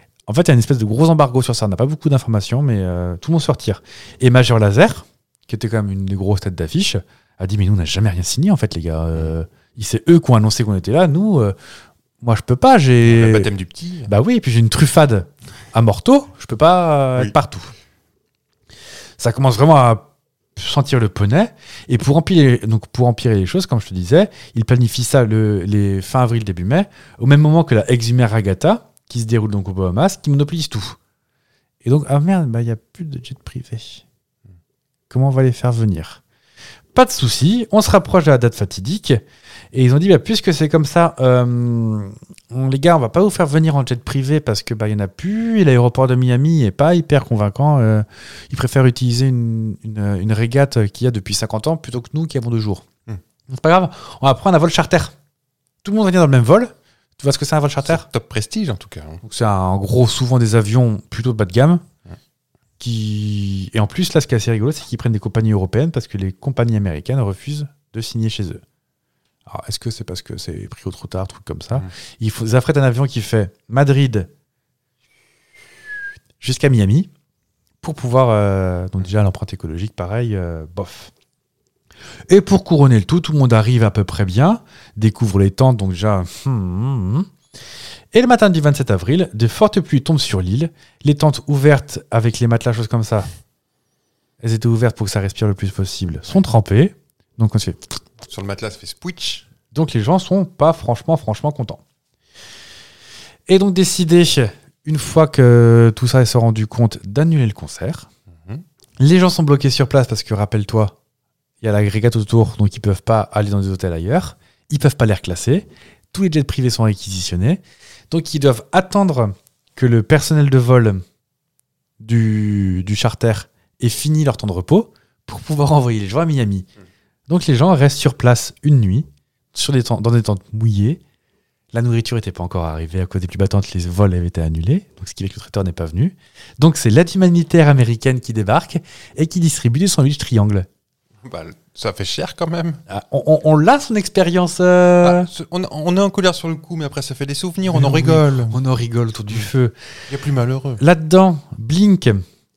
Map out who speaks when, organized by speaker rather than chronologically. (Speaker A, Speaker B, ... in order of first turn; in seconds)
Speaker A: 0.3-11.6, 12.2-13.5, 14.1-17.7, 19.2-31.0, 31.8-34.0, 35.1-36.2, 36.9-39.2, 39.7-52.9, 53.5-55.1, 55.8-58.1, 59.2-61.8, 62.8-68.6, 69.5-74.3, 76.4-77.1, 77.8-81.1, 82.3-87.3, 88.1-93.3, 94.4-97.8, 99.7-101.8, 103.5-108.1, 109.0-111.0, 111.6-121.0, 122.0-126.7, 127.3-131.0, 131.7-140.7, 142.9-145.3, 147.7-149.8, 150.8-152.2
Speaker B: 13.0-14.1, 57.8-59.2, 98.3-99.5, 141.2-142.8, 145.0-148.6, 150.1-150.8